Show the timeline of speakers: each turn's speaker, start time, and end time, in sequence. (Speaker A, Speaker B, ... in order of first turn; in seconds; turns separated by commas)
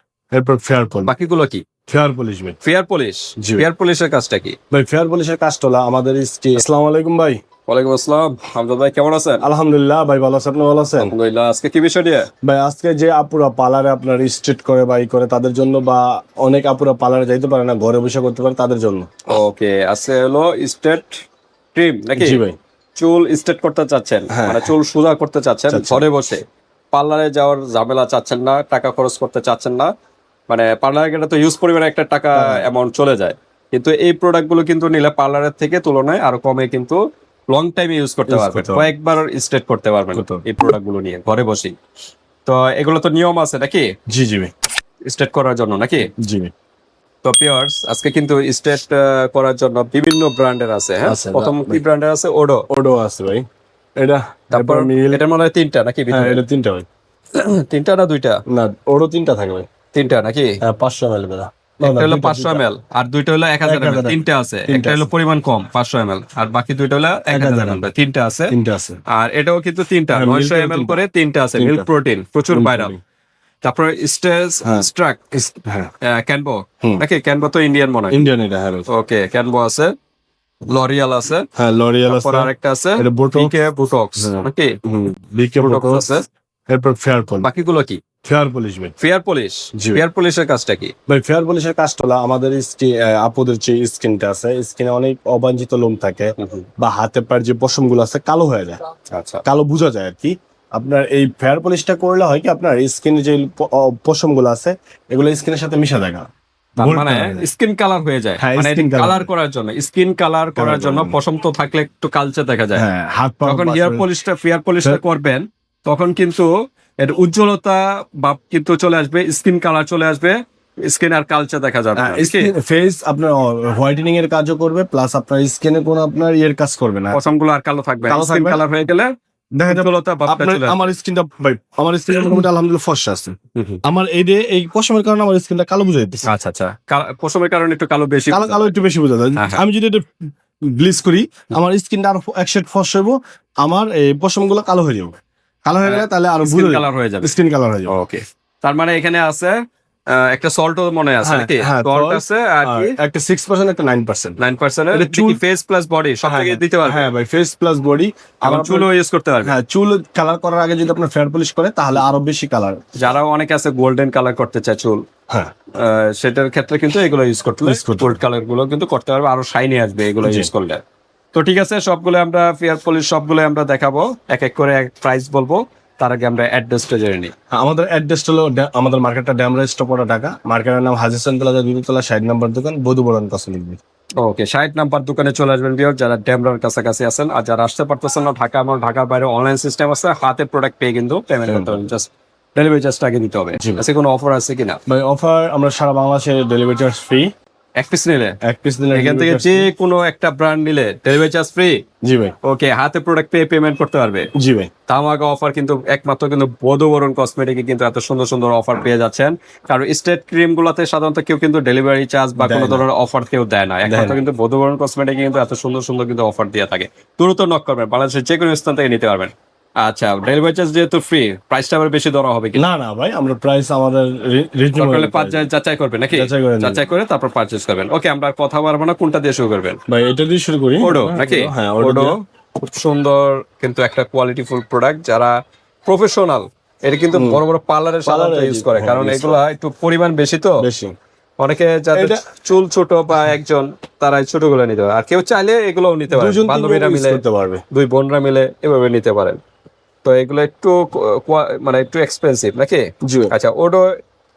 Speaker A: 0.3-1.1, Speaker B: 1.0-1.6, Speaker A: 1.9-2.6, Speaker B: 2.6-4.6, Speaker A: 3.4-3.7, Speaker A: 4.7-7.4, Speaker B: 7.7-9.4, Speaker A: 9.4-11.1, Speaker B: 11.0-12.3, Speaker A: 12.4-19.2, Speaker B: 19.3-21.2, Speaker B: 21.7-22.4, Speaker A: 22.1-22.6, Speaker B: 23.0-29.9, Speaker A: 24.3-24.7, Speaker A: 25.7-26.0, Speaker B: 30.5-41.7, Speaker A: 32.4-32.6, Speaker A: 38.3-38.9, Speaker A: 40.1-40.5, Speaker B: 42.5-43.9, Speaker A: 44.1-44.5, Speaker B: 45.1-46.1, Speaker A: 46.2-46.5, Speaker B: 47.2-52.6, Speaker A: 51.0-51.8, Speaker A: 52.7-53.4, Speaker A: 54.0-55.2, Speaker B: 54.5-56.4, Speaker A: 56.1-56.9, Speaker B: 57.3-58.4, Speaker A: 58.5-59.7, Speaker B: 59.9-60.5, Speaker A: 60.6-62.6, Speaker B: 61.8-68.5, Speaker A: 63.6-65.1, Speaker A: 67.3-67.9, Speaker A: 68.5-69.0, Speaker B: 69.1-72.9, Speaker A: 70.1-71.0, Speaker A: 71.5-71.9, Speaker A: 72.5-73.0, Speaker B: 73.6-75.5, Speaker A: 75.4-75.9, Speaker B: 76.0-78.3, Speaker A: 78.1-78.9, Speaker B: 78.9-79.9, Speaker B: 80.7-81.5, Speaker A: 81.6-83.6, Speaker B: 82.1-84.7, Speaker A: 84.2-86.1, Speaker B: 85.6-86.2, Speaker A: 86.7-87.5, Speaker B: 87.4-88.0, Speaker A: 88.2-88.9, Speaker B: 89.0-90.9, Speaker A: 89.8-90.0, Speaker A: 91.1-98.8, Speaker B: 96.4-96.7, Speaker B: 99.1-99.4, Speaker A: 99.4-106.3, Speaker A: 106.8-107.5, Speaker B: 106.8-112.8, Speaker A: 108.4-109.3, Speaker A: 110.6-111.2, Speaker A: 112.7-114.0, Speaker B: 113.4-122.5, Speaker A: 122.0-127.2, Speaker B: 127.1-129.1, Speaker A: 128.1-128.6, Speaker A: 129.6-136.3, Speaker B: 129.7-130.9, Speaker B: 136.2-138.7, Speaker A: 138.3-147.9, Speaker B: 139.4-139.6, Speaker B: 145.8-147.3, Speaker B: 147.9-149.6, Speaker B: 150.1-152.9, Speaker A: 151.2-154.4, Speaker B: 154.4-157.1, Speaker A: 154.9-155.4, Speaker A: 156.2-158.9, Speaker B: 158.4-159.5, Speaker A: 159.4-162.8, Speaker B: 163.0-165.0, Speaker B: 165.8-170.8, Speaker A: 167.6-168.2, Speaker A: 170.2-170.5, Speaker B: 171.3-177.3, Speaker A: 177.5-183.8, Speaker B: 184.2-194.8, Speaker A: 191.5-191.9, Speaker A: 193.6-193.8, Speaker A: 194.9-197.3, Speaker B: 197.8-198.3, Speaker A: 198.4-199.7, Speaker B: 198.9-201.8, Speaker A: 202.0-202.3, Speaker B: 202.4-204.3, Speaker A: 204.4-204.7, Speaker B: 204.9-222.6, Speaker A: 212.4-212.8, Speaker A: 213.8-214.2, Speaker A: 222.5-225.4, Speaker B: 224.8-229.8, Speaker A: 226.1-226.8, Speaker A: 229.9-232.1, Speaker B: 230.8-235.3, Speaker B: 235.8-240.7, Speaker A: 237.1-237.4, Speaker A: 238.0-239.4, Speaker A: 240.6-240.9, Speaker B: 241.4-249.4, Speaker A: 241.9-242.2, Speaker A: 246.1-247.6, Speaker B: 250.0-253.9, Speaker A: 253.0-253.3